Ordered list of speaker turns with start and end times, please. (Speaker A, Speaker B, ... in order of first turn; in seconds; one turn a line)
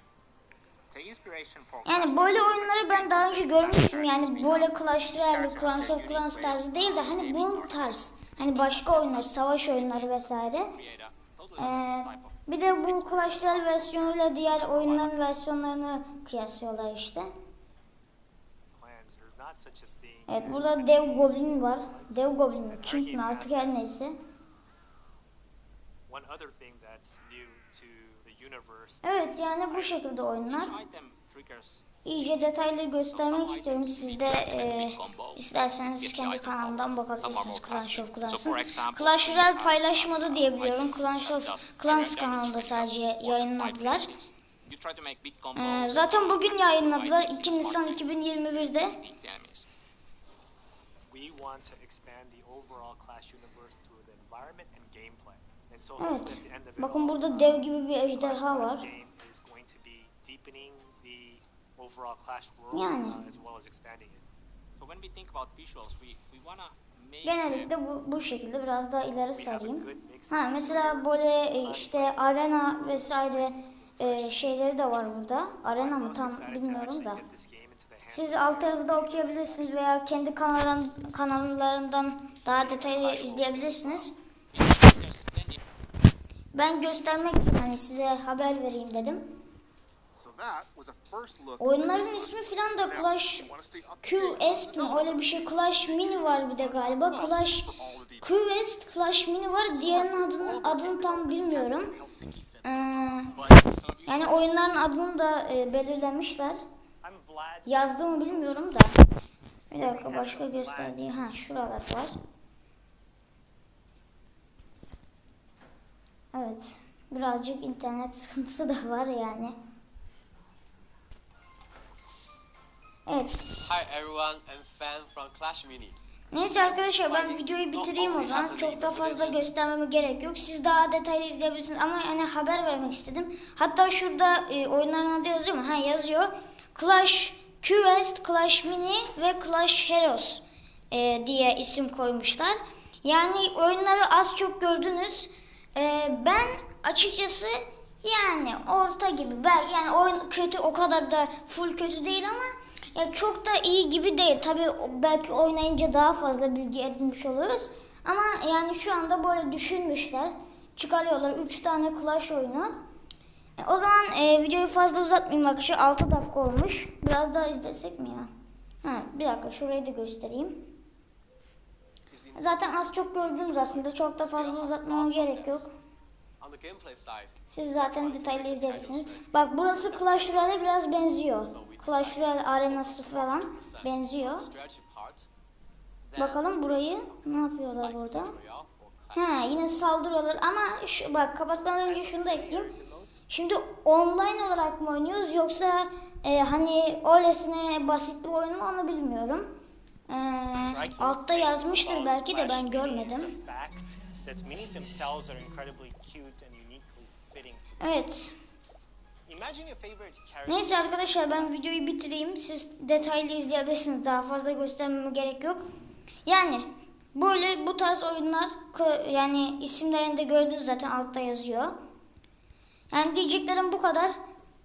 Speaker A: 0.9-4.7
Speaker B: 1.9-10.7
Speaker A: 5.2-15.2
Speaker B: 11.6-17.3
Speaker C: 18.8-23.8
Speaker B: 20.3-24.2
Speaker C: 26.1-30.0
Speaker B: 29.0-30.8
Speaker A: 30.2-31.9
Speaker B: 32.0-44.1
Speaker A: 33.1-49.7
Speaker B: 45.5-49.0
Speaker C: 51.1-64.3
Speaker B: 56.0-58.9
Speaker B: 62.7-63.2
Speaker A: 64.8-67.7
Speaker B: 67.2-77.2
Speaker C: 69.3-74.6
Speaker C: 75.8-80.0
Speaker B: 78.1-84.2
Speaker C: 82.5-84.1
Speaker A: 84.6-85.6
Speaker B: 86.5-89.2
Speaker D: 90.2-98.4
Speaker B: 91.6-102.0
Speaker D: 99.9-102.6
Speaker B: 102.6-103.5
Speaker A: 103.5-104.2
Speaker B: 104.1-106.6
Speaker C: 107.0-108.8
Speaker B: 107.7-109.0
Speaker B: 109.7-112.2
Speaker C: 109.8-111.3
Speaker B: 116.3-119.6
Speaker B: 123.1-123.8
Speaker D: 123.6-126.0
Speaker B: 126.3-162.7
Speaker D: 127.0-129.4
Speaker B: 163.6-168.3
Speaker B: 168.8-170.7
Speaker D: 172.1-175.6
Speaker B: 172.4-175.7
Speaker D: 176.4-180.7
Speaker B: 177.5-184.5
Speaker D: 181.5-185.3
Speaker D: 186.1-186.4
Speaker B: 186.2-188.4
Speaker D: 187.8-189.2
Speaker B: 189.1-192.7
Speaker C: 191.9-193.1
Speaker B: 193.3-199.5
Speaker B: 200.1-203.4
Speaker C: 200.6-207.8
Speaker B: 207.8-208.3
Speaker C: 209.3-211.5
Speaker B: 210.5-215.7
Speaker B: 216.2-221.8
Speaker B: 222.9-224.2